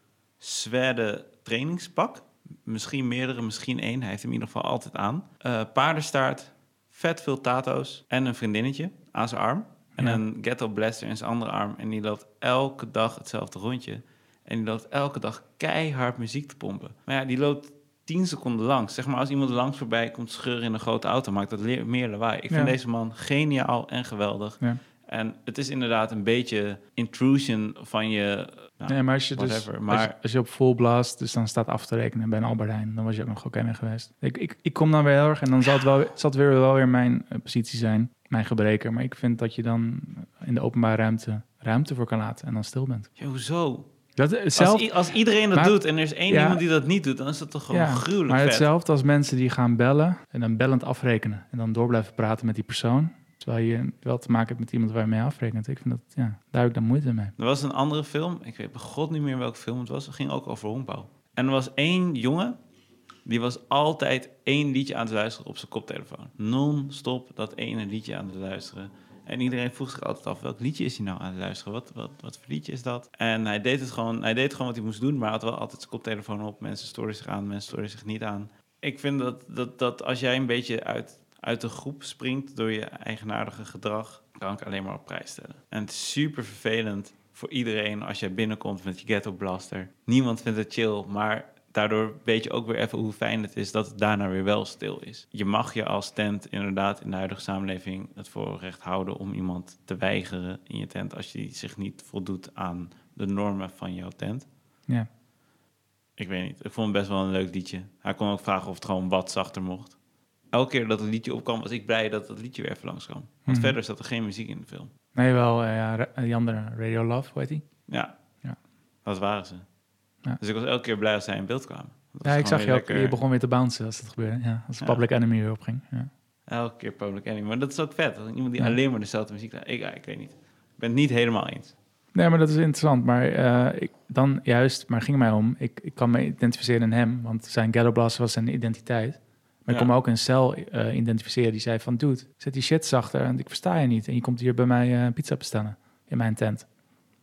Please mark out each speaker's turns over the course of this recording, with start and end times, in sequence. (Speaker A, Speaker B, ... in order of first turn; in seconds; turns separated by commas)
Speaker A: 0.4-30.1, Speaker B: 9.9-10.2, Speaker B: 28.9-43.1, Speaker A: 43.2-43.9, Speaker B: 44.1-46.6, Speaker A: 44.5-48.7, Speaker B: 47.7-57.3, Speaker A: 57.4-62.5, Speaker A: 63.2-104.5, Speaker A: 106.2-110.0, Speaker A: 110.5-114.9, Speaker B: 113.5-113.8, Speaker B: 115.1-117.9, Speaker A: 117.9-118.1, Speaker A: 119.0-119.7, Speaker A: 120.4-123.2, Speaker B: 122.2-126.1, Speaker A: 126.5-131.7, Speaker B: 132.1-146.7